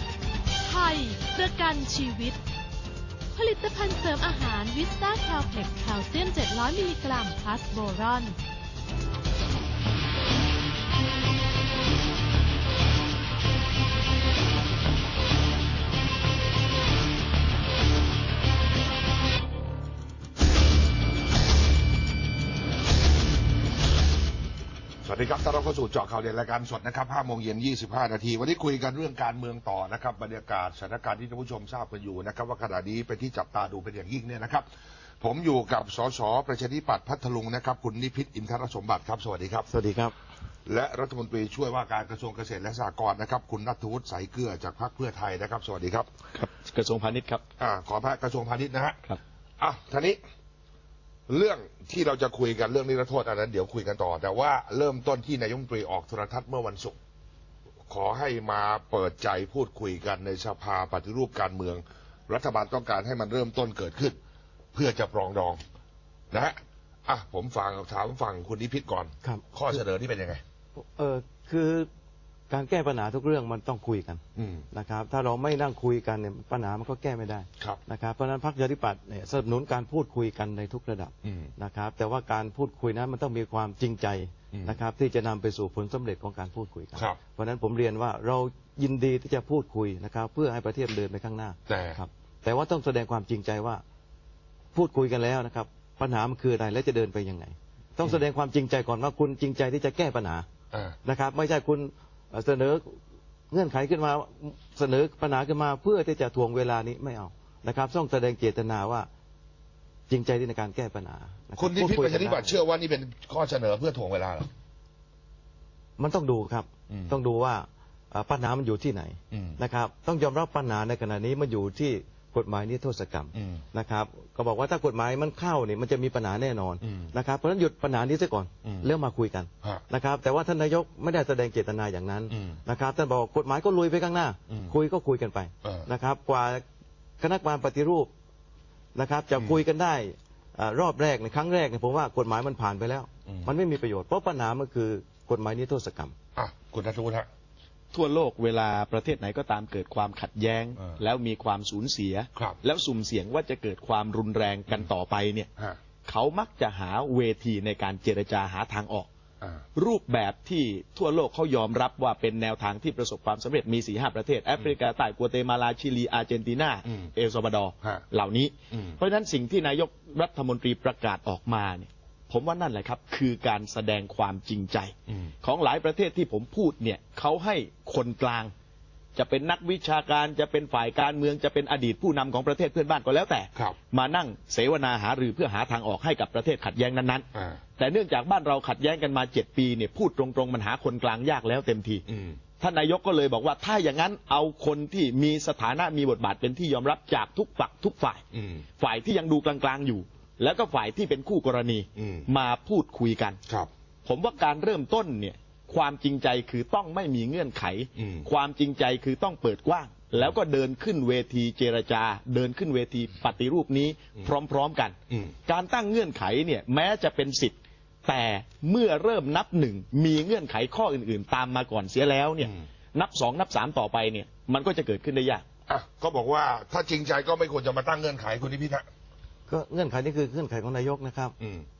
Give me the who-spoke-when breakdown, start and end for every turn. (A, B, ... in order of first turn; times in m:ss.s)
0:00.6-0:02.4 A
0:03.3-0:08.4 A
0:25.0-0:34.7 B
0:35.2-0:39.7 B
0:39.7-0:40.1 C
0:40.7-0:46.1 B
0:46.3-0:47.4 D
0:47.6-0:49.0 B
0:49.6-0:50.2 B
0:51.3-0:57.0 B
0:57.9-1:04.2 B
1:04.7-1:05.6 B
1:06.3-1:10.4 B
1:10.8-1:11.9 C
1:12.5-1:33.8 C
1:14.4-1:14.7 B
1:21.2-1:21.5 B
1:24.5-1:24.8 B
1:31.7-1:32.0 B
1:34.7-1:40.4 C
1:41.0-1:43.0 C
1:43.5-1:49.1 C
1:50.1-1:52.6 C
1:51.6-1:54.5 B
1:56.0-2:16.6 C
1:56.9-1:57.2 B
1:59.3-1:59.6 B
2:03.3-2:03.6 B
2:06.8-2:07.1 B
2:08.6-2:08.9 B
2:12.3-2:12.6 B
2:14.5-2:14.8 B
2:17.2-2:18.1 C
2:19.0-2:26.1 C
2:23.3-2:23.5 B
2:26.4-2:27.3 B
2:27.9-2:35.5 D
2:36.0-2:39.1 D
2:39.8-2:58.5 D
2:48.7-2:49.0 B
2:59.2-3:07.3 D
3:07.4-3:07.6 B
3:07.8-3:12.0 D
3:12.1-3:12.4 B
3:12.6-3:18.2 D
3:18.3-3:18.6 B
3:18.8-3:23.4 D
3:22.0-3:22.3 B
3:24.0-3:45.4 D
3:28.0-3:28.3 B
3:45.7-3:48.9 B
3:49.5-3:51.3 C
3:51.4-3:51.7 B